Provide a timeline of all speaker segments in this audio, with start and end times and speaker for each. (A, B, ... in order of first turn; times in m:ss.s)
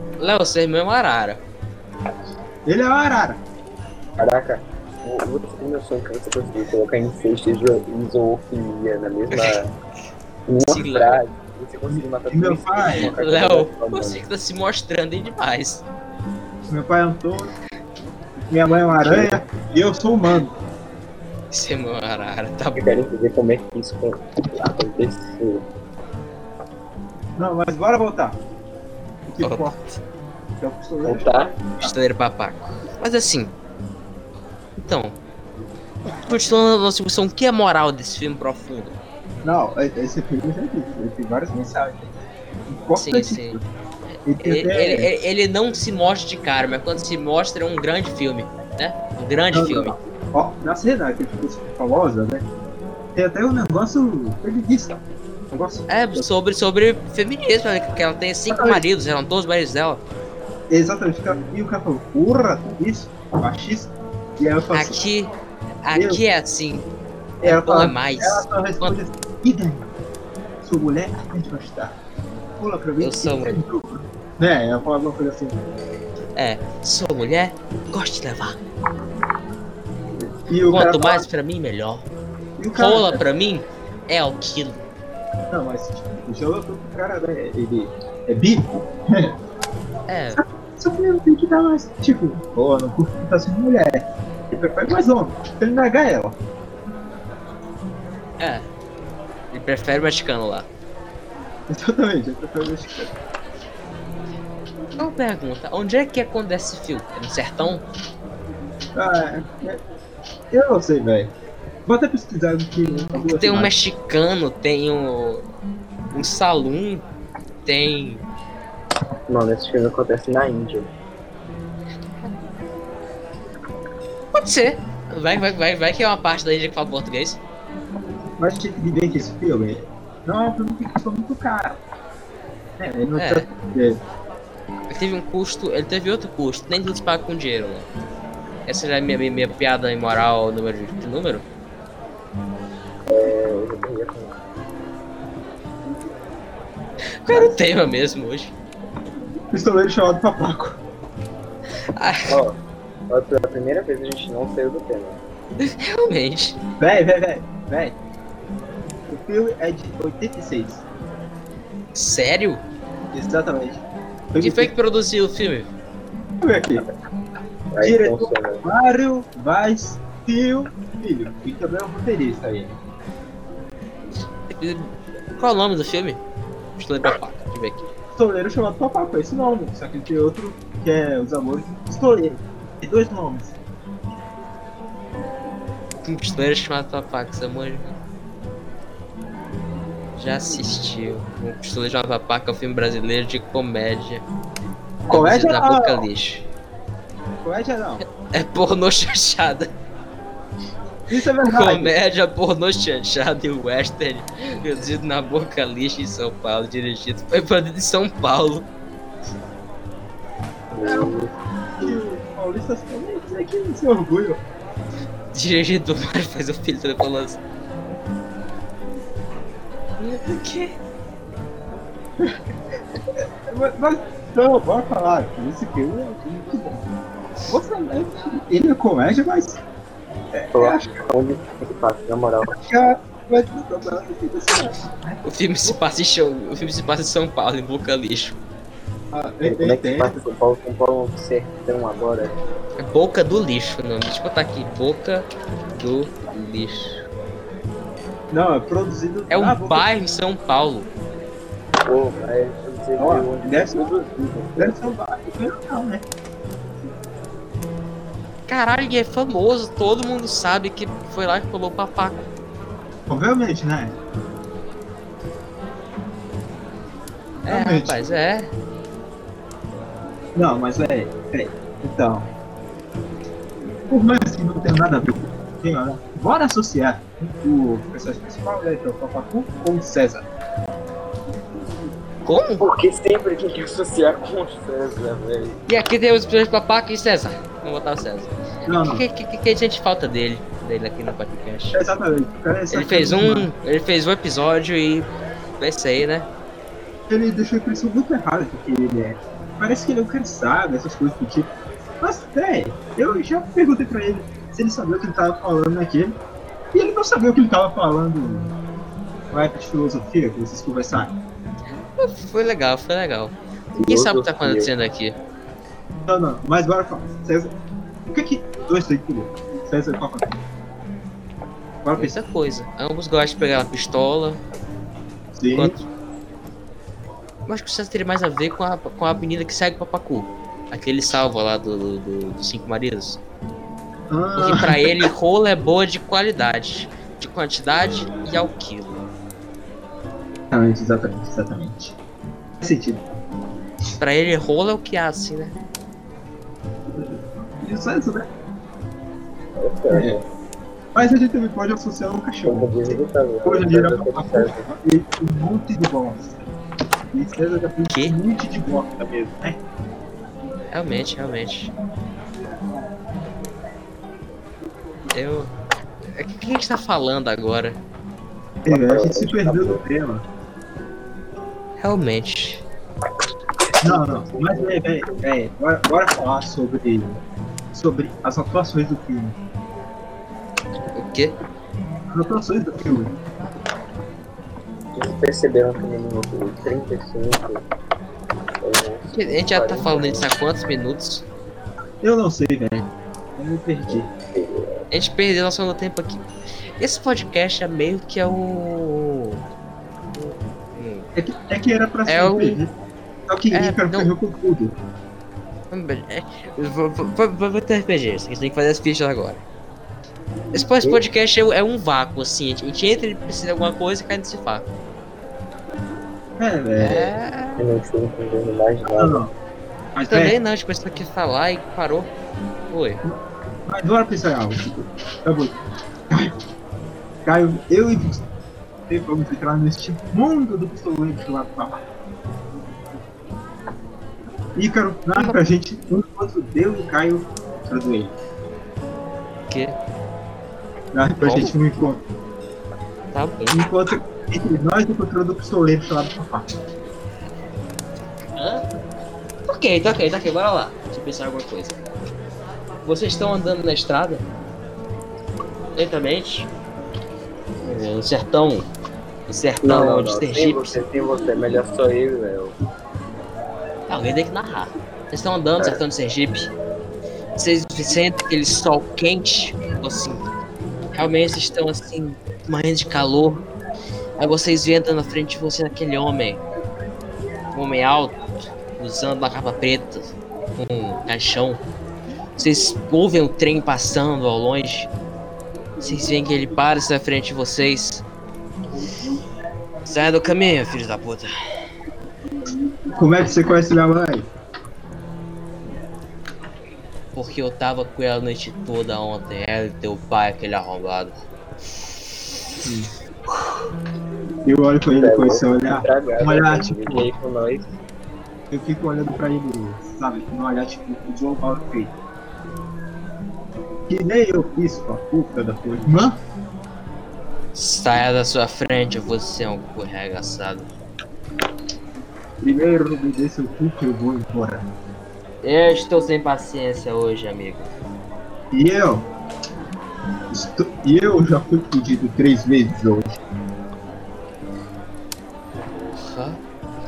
0:00.2-0:01.4 A
0:02.6-0:03.4 B
0:04.2-0:09.7 C
0:09.3-0:09.6 A
0:10.5-0:14.2 C
0:10.6-0:11.2 A
0:11.9-0:13.1 B
0:12.9-0:15.8 A
0:16.7-0:17.5 B
0:18.5-0:20.5 B
0:19.0-0:19.4 C
0:21.5-0:22.8 A
0:22.7-0:25.6 C
0:27.4-0:28.4 B
0:29.2-0:29.8 B
0:29.4-0:29.9 A
0:30.6-0:31.9 B
0:31.0-0:31.6 C
0:31.8-0:33.5 A
0:34.8-0:35.2 A
0:36.2-0:39.0 A
0:39.4-0:43.6 B
0:42.9-0:43.6 A
0:44.2-0:45.1 B
0:44.4-0:50.0 A
0:49.5-0:52.5 B
0:53.1-0:56.3 B
0:55.9-1:00.0 A
0:58.5-0:58.8 B
1:00.7-1:05.0 B
1:04.7-1:05.3 A
1:05.8-1:06.9 A
1:05.9-1:06.2 B
1:07.4-1:09.9 B
1:07.4-1:09.0 A
1:10.6-1:12.0 B
1:12.6-1:15.6 B
1:13.0-1:13.6 A
1:16.4-1:18.6 A
1:20.4-1:21.2 B
1:20.7-1:22.1 A
1:22.6-1:23.2 B
1:22.7-1:24.8 A
1:25.5-1:29.4 B
1:30.1-1:30.4 A
1:30.3-1:36.4 B
1:38.4-1:38.7 A
1:39.5-1:40.7 A
1:41.7-1:43.1 B
1:45.0-1:47.8 A
1:48.9-1:49.8 B
1:50.5-1:51.3 B
1:51.8-1:53.7 B
1:53.1-1:55.5 A
1:56.1-1:57.0 A
1:57.6-1:58.2 A
1:59.3-2:00.9 C
2:04.3-2:07.4 A
2:08.4-2:11.8 B
2:12.8-2:14.0 B
2:13.1-2:13.5 A
2:14.9-2:17.9 A
2:18.7-2:21.4 A
2:23.1-2:24.3 C
2:27.2-2:28.5 A
2:27.3-2:27.6 B
2:29.5-2:30.8 B
2:31.9-2:32.3 A
2:32.3-2:32.6 C
2:33.1-2:35.2 C
2:35.6-2:36.6 A
2:36.8-2:38.0 B
2:39.1-2:40.8 B
2:41.9-2:42.6 A
2:43.1-2:44.7 B
2:44.4-2:45.7 A
2:46.4-2:46.8 B
2:47.7-2:48.6 C
2:47.8-2:52.8 B
2:54.5-2:56.2 A
2:56.8-2:57.9 A
2:58.2-3:03.6 B
3:06.0-3:07.9 A
3:10.2-3:14.2 A
3:15.1-3:16.1 B
3:15.1-3:16.4 A
3:17.4-3:18.0 B
3:18.3-3:19.7 A
3:21.1-3:21.9 B
3:21.4-3:28.7 A
3:30.7-3:31.3 C
3:30.8-3:31.2 B
3:31.8-3:34.4 B
3:35.3-3:37.4 A
3:40.0-3:40.8 A
3:43.1-3:46.9 B
3:47.5-3:49.6 B
3:50.3-3:50.9 B
3:50.5-3:52.6 C
3:52.5-3:55.8 B
3:55.2-3:58.4 A
3:59.1-4:00.2 B
3:59.4-4:02.4 C
4:02.8-4:07.0 A
4:08.3-4:09.9 B
4:09.3-4:10.9 A
4:11.8-4:14.9 C
4:13.0-4:13.9 B
4:14.6-4:16.0 B
4:18.5-4:22.2 A
4:23.1-4:24.0 B
4:27.4-4:28.0 B
4:27.4-4:28.5 A
4:30.3-4:32.3 B
4:33.9-4:40.2 B
4:42.2-4:42.6 A
4:42.6-4:45.6 C
4:45.7-4:51.8 A
4:48.7-4:49.0 B
4:51.7-4:53.5 B
4:52.7-4:55.1 A
4:55.6-4:56.3 A
4:57.1-5:06.2 B
5:06.7-5:08.5 B
5:09.3-5:11.2 B
5:12.0-5:15.2 A
5:13.7-5:14.7 C
5:16.0-5:17.5 B
5:18.1-5:20.4 B
5:21.8-5:22.1 B
5:22.0-5:24.4 A
5:25.3-5:25.7 B
5:25.5-5:25.8 A
5:27.5-5:33.2 A
5:34.1-5:35.1 B
5:34.4-5:39.0 A
5:40.5-5:42.0 B
5:42.6-5:43.1 B
5:44.0-5:45.5 A
5:47.0-5:48.3 B
5:49.6-5:50.2 C
5:49.9-5:50.2 B
5:50.9-5:56.4 B
5:52.4-5:54.7 C
5:57.1-5:59.6 B
5:57.9-5:58.1 A
6:00.7-6:01.7 A
6:05.1-6:05.5 A
6:06.1-6:07.8 A
6:08.6-6:10.2 B
6:08.7-6:09.8 C
6:11.8-6:12.6 A
6:13.8-6:17.2 B
6:13.8-6:14.8 C
6:17.7-6:19.4 B
6:20.9-6:21.3 A
6:22.1-6:23.1 B
6:24.9-6:27.6 C
6:28.6-6:30.3 C
6:29.1-6:31.2 A
6:32.0-6:34.1 B
6:34.1-6:34.8 C
6:34.9-6:36.2 A
6:36.8-6:39.4 A
6:40.1-6:41.1 A
6:41.1-6:42.7 B
6:42.1-6:42.6 A
6:43.3-6:44.8 B
6:43.5-6:44.1 A
6:45.7-6:49.4 A
6:50.5-6:54.7 A
6:56.4-6:57.1 B
6:56.8-6:57.6 A
6:57.6-6:59.2 C
6:58.9-6:59.3 B
6:59.9-7:00.4 B
7:00.1-7:02.1 A
7:02.7-7:03.0 A
7:03.0-7:05.6 B
7:07.2-7:08.2 B
7:08.9-7:11.8 B
7:14.6-7:18.1 B
7:19.5-7:19.7 A
7:20.9-7:22.0 B
7:21.2-7:21.5 A
7:23.1-7:23.6 A
7:23.5-7:26.4 B
7:28.4-7:28.6 A
7:29.5-7:31.8 A
7:32.8-7:34.2 A
7:35.8-7:36.5 A
7:37.6-7:38.7 A
7:39.3-7:40.8 A
7:39.6-7:42.6 C
7:43.9-7:46.5 A
7:47.4-7:50.2 A
7:50.9-7:53.4 A
7:54.2-7:56.4 A
7:57.5-7:58.2 A
7:58.8-8:01.6 A
8:02.4-8:04.9 A
8:05.8-8:08.0 A
8:09.8-8:11.3 A
8:12.9-8:14.3 B
8:17.1-8:21.2 A
8:22.6-8:22.9 B
8:24.4-8:27.1 B
8:24.9-8:27.7 C
8:28.5-8:31.9 B
8:33.9-8:36.2 B
8:37.5-8:40.7 A
8:42.4-8:44.7 B
8:45.4-8:47.7 A
8:48.5-8:49.1 B
8:50.3-8:53.1 B
8:55.9-8:56.4 A